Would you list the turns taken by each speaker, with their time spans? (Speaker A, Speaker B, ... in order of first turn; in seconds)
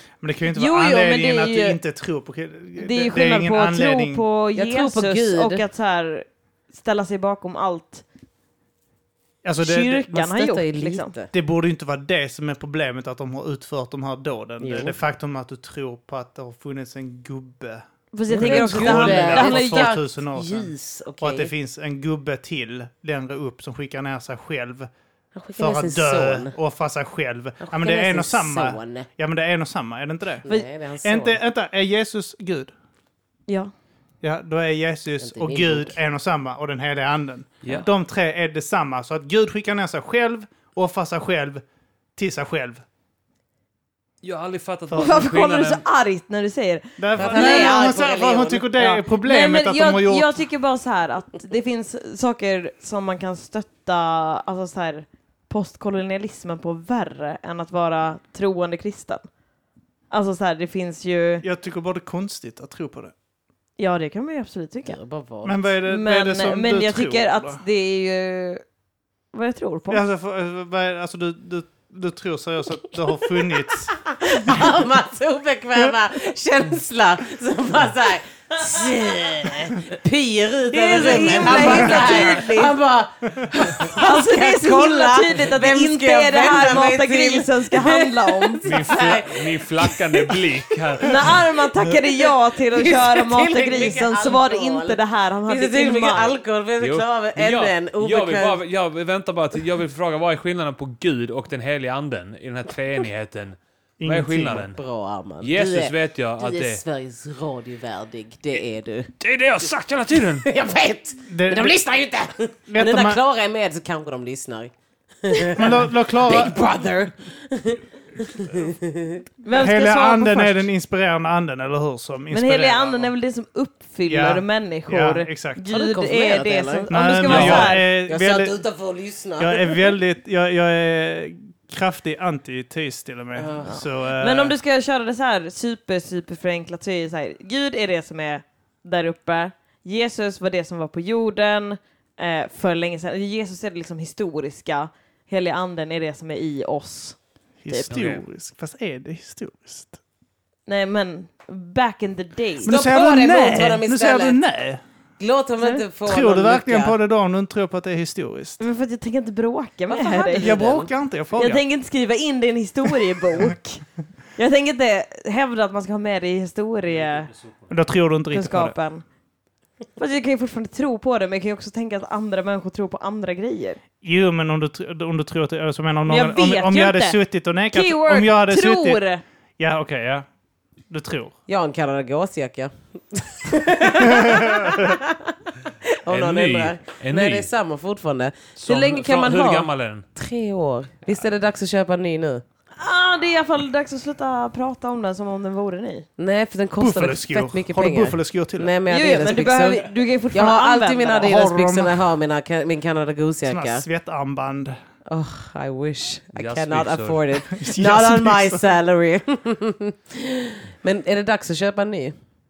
Speaker A: 0.2-4.2, 9.4-10.4, 11.3-24.9, 25.6-30.5, 31.0-32.7, 34.2-41.6, 42.1-42.8, 44.9-45.2, 47.0-50.3, 61.4-63.1, 65.4-67.6, 69.9-74.8, 81.0-82.4, 104.0-104.7, 111.3-111.8, 112.7-113.2, 115.4-116.6, 119.5-123.1, 124.1-125.6, 126.9-128.5, 129.4-134.5, 147.6-150.0, 152.6-154.8, 156.0-158.6, 160.3-161.6, 167.7-168.7, 174.0-179.0, 179.6-180.2, 180.9-181.3, 183.9-184.9, 196.8-198.7, 201.1-202.1, 203.4-204.8, 207.5-208.7
Speaker B: 0.5-1.8, 2.8-8.0, 9.6-11.1, 18.1-19.9, 45.0-47.8, 48.8-59.2, 60.1-61.4, 63.8-65.0, 65.9-68.6, 69.3-70.0, 80.7-82.8, 83.8-88.6, 91.0-96.4, 119.4-120.7, 122.3-127.8, 133.7-147.9, 150.7-152.8, 158.6-160.6, 161.3-163.8, 164.3-167.3, 168.3-169.0, 170.0-173.8, 176.1-177.2, 177.7-179.2, 192.8-196.1, 198.9-201.3
Speaker C: 4.5-5.6, 10.3-11.3, 14.6-15.0, 18.3-21.5, 25.3-26.5, 27.6-29.1, 30.4-31.4, 35.2-36.0, 47.2-48.7, 64.8-65.6, 73.8-90.4, 91.9-98.6, 104.7-109.1, 110.4-119.2, 125.7-129.9, 133.3-133.8, 152.6-154.4, 155.2-156.9, 159.9-160.9, 181.5-185.3, 186.0-192.4, 196.2-203.8, 205.1-212.1
Speaker D: 44.2-45.8, 88.6-91.3, 96.8-104.8, 105.4-106.8, 109.2-110.5, 127.2-127.7, 147.9-148.2, 186.1-187.5, 188.6-190.0, 206.3-207.2